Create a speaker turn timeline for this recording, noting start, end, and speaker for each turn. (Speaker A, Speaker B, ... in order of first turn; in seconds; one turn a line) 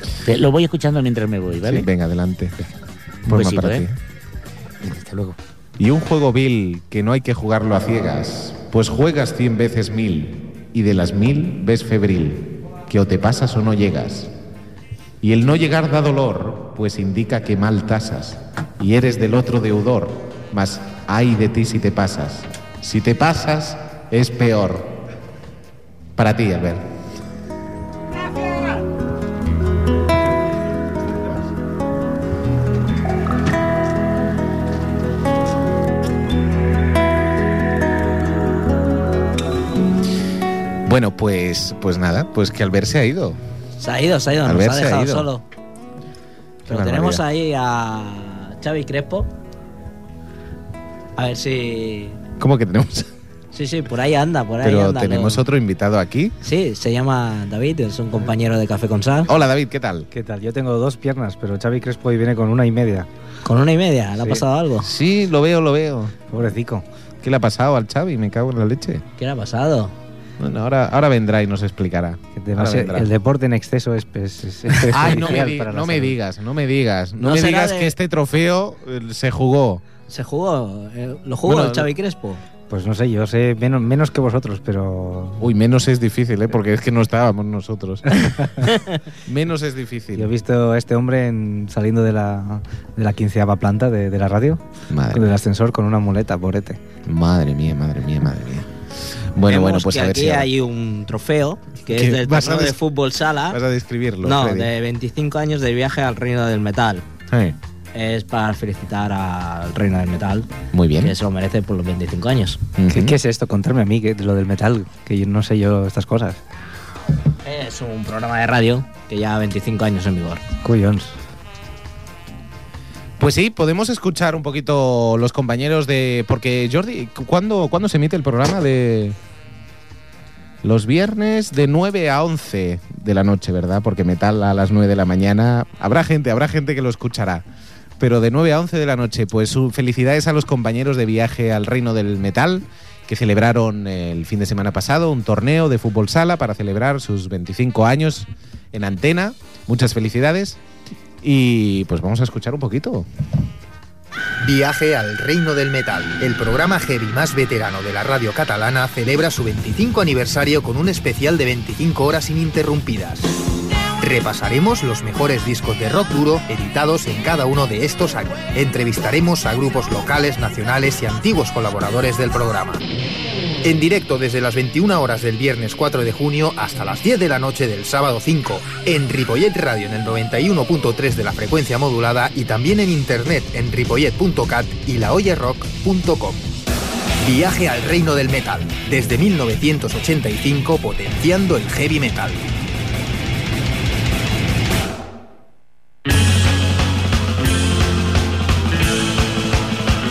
Speaker A: 0.2-1.9
Speaker B: 1.6-2.6
Speaker B: 3.3-4.0
Speaker A: 3.3-3.9
Speaker A: 4.8-5.4
Speaker B: 5.8-14.3
Speaker B: 15.2-25.0
Speaker B: 26.2-26.9
Speaker B: 40.9-43.4
Speaker C: 43.8-45.4
Speaker B: 44.4-45.3
Speaker B: 46.7-47.2
Speaker C: 46.7-49.3
Speaker C: 51.2-52.2
Speaker B: 52.4-53.1
Speaker C: 53.5-55.4
Speaker B: 54.6-56.4
Speaker C: 56.4-59.3
Speaker B: 59.3-60.1
Speaker D: 60.1-63.1
Speaker C: 63.4-64.9
Speaker B: 64.8-66.2
Speaker D: 66.3-66.8
Speaker B: 67.2-69.0
Speaker C: 69.2-69.9
Speaker B: 70.4-73.1
Speaker D: 72.4-76.2
Speaker B: 74.9-79.8
Speaker C: 77.2-78.0
Speaker C: 80.1-82.4
Speaker B: 81.4-81.9
Speaker D: 82.7-85.4
Speaker B: 85.4-88.5
Speaker B: 89.2-90.3
Speaker D: 90.2-96.8
Speaker B: 94.9-95.3
Speaker B: 97.0-98.7
Speaker B: 99.3-100.5
Speaker C: 99.5-103.6
Speaker B: 101.9-102.8
Speaker B: 103.5-104.7
Speaker C: 104.2-107.0
Speaker B: 107.3-107.6
Speaker C: 107.9-112.7
Speaker B: 110.7-111.2
Speaker B: 112.8-113.2
Speaker D: 112.9-116.4
Speaker C: 117.5-120.4
Speaker D: 120.6-121.1
Speaker B: 123.2-129.2
Speaker B: 130.6-137.4
Speaker B: 138.0-150.6
Speaker B: 151.2-153.1
Speaker E: 154.4-163.3
Speaker E: 164.0-172.8
Speaker E: 173.6-186.4
Speaker E: 187.2-192.5